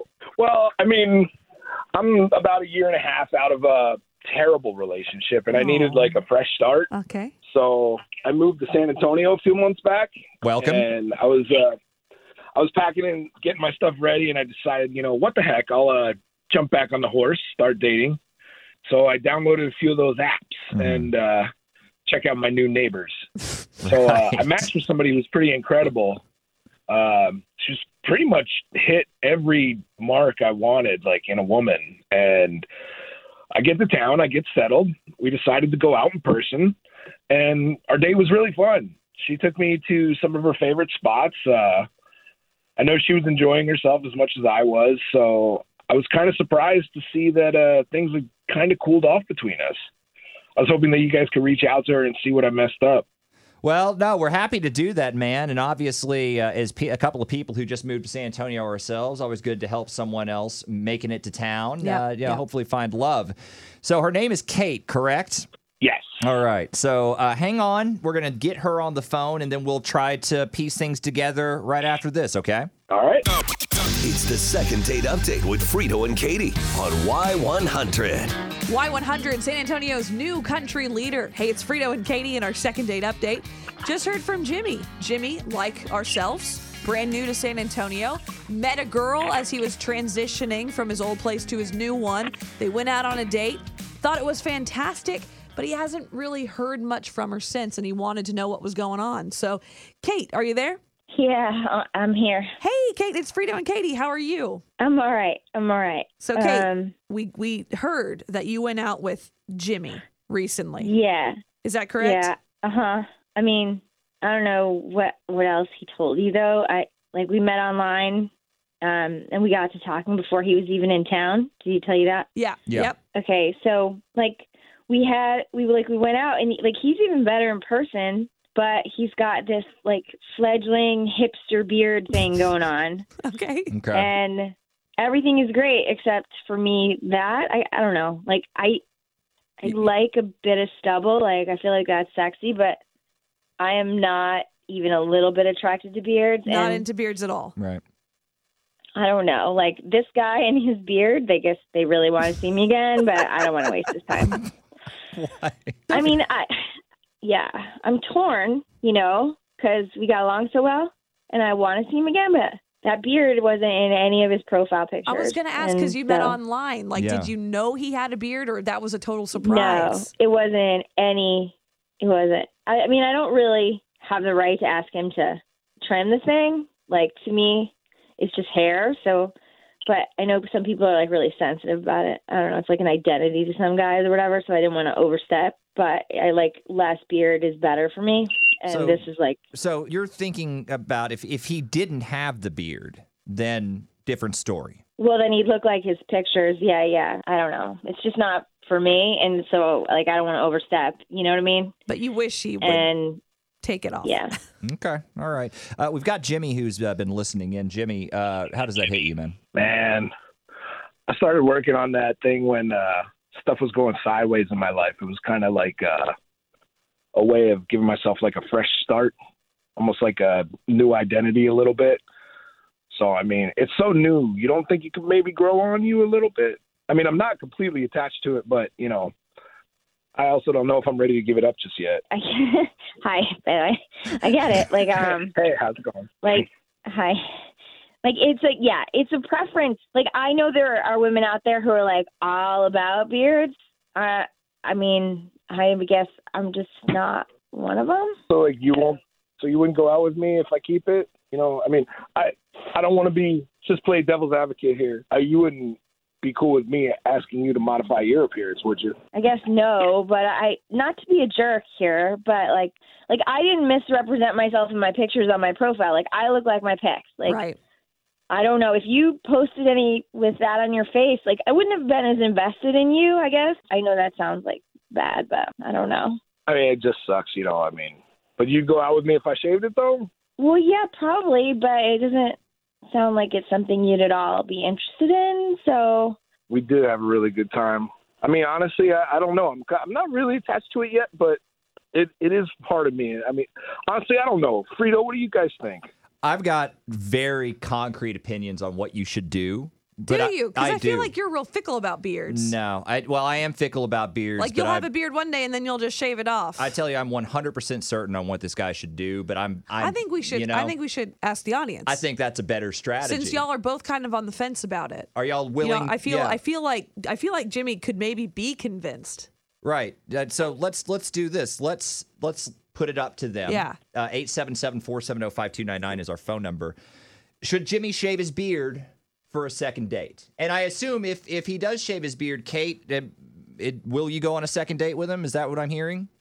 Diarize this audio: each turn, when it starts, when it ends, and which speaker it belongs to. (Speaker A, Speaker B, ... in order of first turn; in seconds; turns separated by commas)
Speaker A: 0.4-1.3, Speaker A: 1.9-6.9, Speaker B: 5.5-6.2, Speaker B: 6.9-7.3, Speaker A: 7.5-11.8, Speaker C: 10.4-10.9, Speaker A: 12.6-18.2, Speaker A: 18.9-21.5, Speaker C: 20.7-21.1, Speaker A: 22.1-23.2, Speaker A: 23.8-26.2, Speaker C: 23.9-24.5, Speaker A: 26.9-32.7, Speaker A: 33.5-36.8, Speaker A: 37.3-41.9, Speaker A: 42.8-49.8, Speaker A: 50.6-53.0, Speaker C: 53.6-65.5, Speaker B: 61.8-62.4, Speaker A: 65.8-66.1, Speaker C: 66.2-72.7, Speaker A: 72.9-73.3, Speaker D: 74.0-78.3, Speaker B: 78.7-100.8, Speaker E: 101.1-102.5, Speaker B: 102.6-104.6, Speaker E: 104.8-106.9, Speaker B: 106.2-110.9, Speaker E: 110.8-111.4, Speaker B: 111.6-112.3, Speaker E: 112.0-118.3, Speaker E: 118.8-122.3, Speaker B: 122.4-123.0, Speaker E: 123.1-133.1, Speaker B: 133.2-133.7, Speaker C: 133.7-134.1, Speaker E: 133.9-138.8, Speaker E: 139.6-142.8, Speaker E: 143.6-146.8, Speaker B: 146.5-147.5, Speaker E: 149.0-154.5, Speaker C: 155.1-156.1, Speaker E: 155.9-156.6, Speaker E: 157.2-166.4, Speaker B: 165.1-170.1, Speaker C: 166.9-167.3, Speaker E: 169.4-179.3, Speaker E: 179.9-189.4, Speaker C: 188.7-194.8, Speaker E: 195.0-201.8, Speaker B: 201.9-202.9, Speaker E: 202.6-203.2, Speaker B: 203.6-204.3, Speaker E: 204.0-204.3, Speaker C: 204.6-209.4, Speaker A: 209.5-210.1, Speaker A: 211.1-216.1, Speaker A: 217.1-219.1, Speaker A: 219.8-222.0, Speaker A: 222.9-229.1, Speaker A: 230.2-232.0, Speaker E: 232.1-235.3, Speaker A: 234.9-236.1, Speaker E: 236.2-237.2, Speaker E: 238.0-248.2, Speaker A: 248.3-259.0, Speaker E: 259.1-267.4, Speaker B: 267.2-267.6, Speaker E: 268.3-276.2, Speaker A: 276.5-280.1, Speaker E: 280.4-282.4, Speaker E: 282.9-286.2, Speaker A: 286.5-291.4, Speaker A: 291.9-295.9, Speaker C: 296.2-301.1, Speaker B: 300.1-302.5, Speaker C: 302.3-304.9, Speaker B: 304.4-306.7, Speaker C: 306.6-310.8, Speaker B: 309.8-312.0, Speaker C: 311.9-313.4, Speaker B: 313.0-315.1, Speaker C: 315.2-316.4, Speaker B: 315.6-319.3, Speaker C: 319.6-326.8, Speaker B: 323.5-323.8, Speaker C: 327.4-336.1